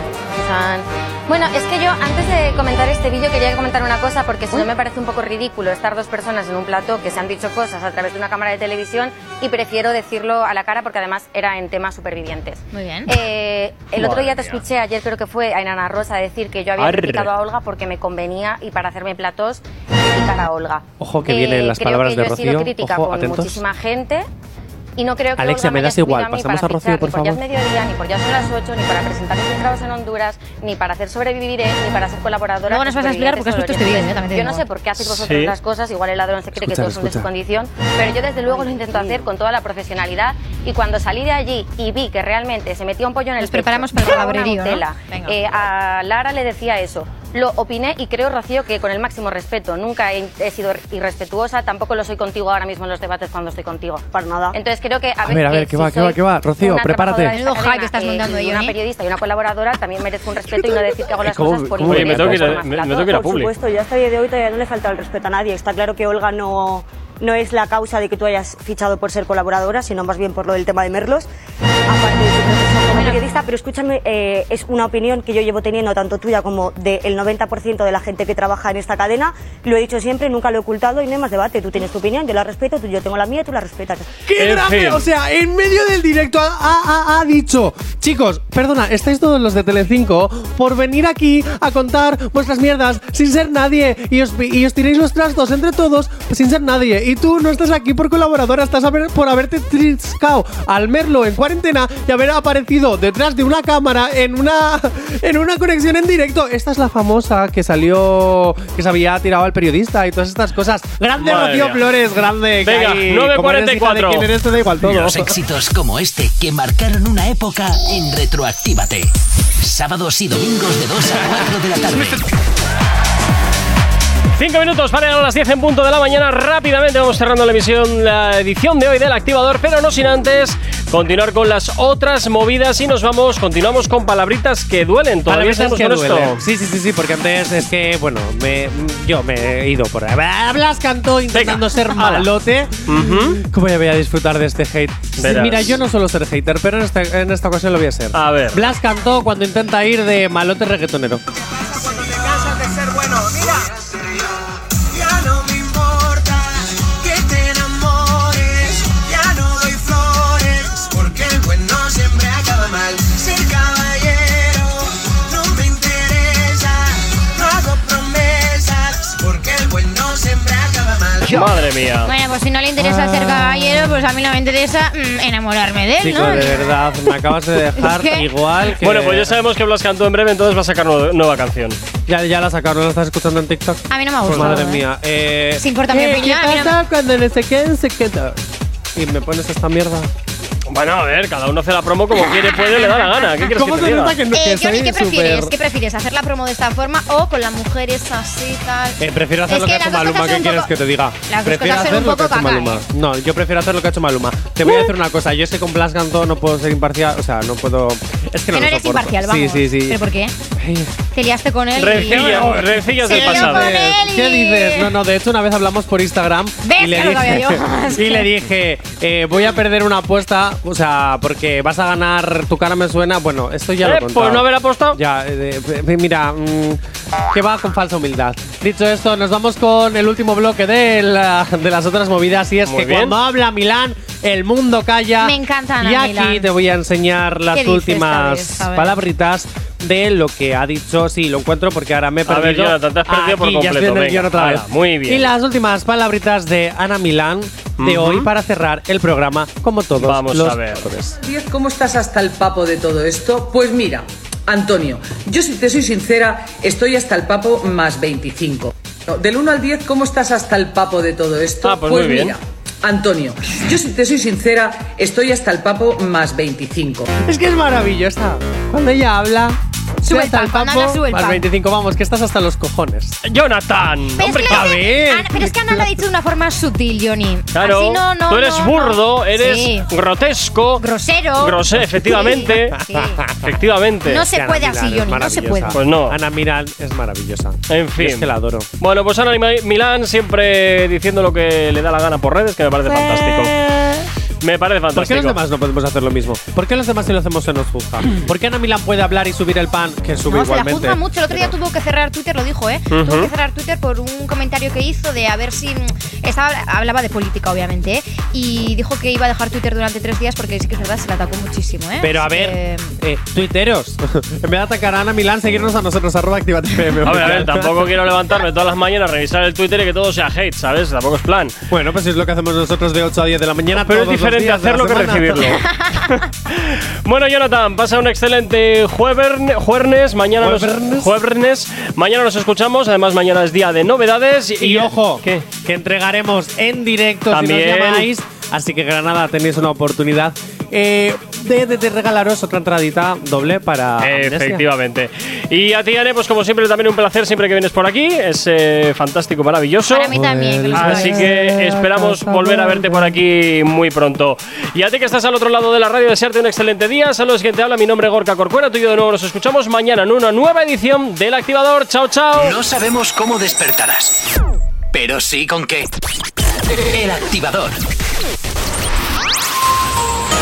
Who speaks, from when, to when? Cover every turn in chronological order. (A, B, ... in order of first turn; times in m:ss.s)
0:00.3-0:24.3 A
0:12.7-0:13.1 B
0:13.9-0:14.6 C
0:16.8-0:17.3 C
0:21.0-0:23.6 D
0:25.0-1:03.1 A
0:25.4-0:27.4 D
0:32.7-0:34.6 B
0:35.0-0:35.5 C
0:36.5-0:37.3 D
0:43.4-0:45.4 B
0:54.1-0:54.6 E
0:55.2-0:57.3 D
0:57.2-0:58.7 B
1:01.1-1:02.6 D
1:01.9-1:03.5 C
1:03.0-1:11.3 E
1:11.9-1:24.2 E
1:12.9-1:13.2 B
1:24.2-1:55.3 D
1:24.4-1:25.0 C
1:51.2-1:51.9 C
1:52.6-1:54.3 C
1:54.8-2:02.3 F
2:04.4-2:16.4 C
2:15.3-2:31.2 D
2:21.3-2:22.3 C
2:22.8-2:23.4 C
2:25.2-2:25.8 C
2:28.1-2:28.6 C
2:31.3-2:51.4 G
2:51.2-2:52.1 C
2:52.0-2:56.7 B
2:52.9-2:53.2 D
2:56.0-2:59.3 D
2:57.7-2:58.3 B
2:58.8-3:01.8 C
3:02.1-3:08.4 D
3:03.9-3:04.8 B
3:04.2-3:04.6 C
3:05.6-3:06.8 B
3:08.9-3:10.1 D
3:10.7-3:14.2 C
3:12.3-3:13.4 B
3:13.5-3:15.5 D
3:14.3-3:20.7 B
3:19.0-3:30.0 D
3:21.3-3:22.8 B
3:28.5-3:30.3 B
3:30.6-3:31.0 D
3:31.1-3:32.5 B
3:31.8-3:33.8 C
3:32.0-3:46.8 D
3:33.1-3:34.9 B
3:36.6-3:38.3 B
3:43.8-3:45.0 C
3:47.3-4:11.2 D
3:52.6-3:53.2 C
3:55.2-3:56.5 B
3:57.5-3:59.0 B
4:02.3-4:05.3 C
4:07.8-4:08.3 C
4:10.0-4:10.8 C
4:11.2-4:27.1 H
4:21.6-4:22.3 C
4:27.2-4:33.2 D
4:30.0-4:31.4 B
4:33.2-4:34.8 C
4:34.2-4:39.9 B
4:34.5-4:35.8 D
4:37.5-4:40.8 C
4:40.8-4:43.2 B
4:41.4-4:42.8 C
4:42.5-4:43.5 D
4:43.4-4:44.2 C
4:44.0-4:45.8 B
4:44.2-4:48.7 D
4:45.7-4:46.2 C
4:47.7-4:53.5 C
4:52.9-4:54.1 D
4:54.4-4:55.4 C
4:54.9-5:01.5 D
5:00.3-5:12.9 B
5:02.9-5:03.3 C
5:12.0-5:17.9 D
5:17.0-5:21.6 C
5:21.7-5:25.6 D
5:23.7-5:35.4 C
5:30.4-5:31.1 D
5:34.6-5:44.6 D
5:37.3-5:38.1 C
5:44.0-5:50.1 C
5:49.9-5:51.3 B
5:50.1-5:53.2 D
5:50.7-6:02.5 C
6:02.4-6:04.2 F
6:04.9-6:05.9 F
6:06.8-6:07.8 F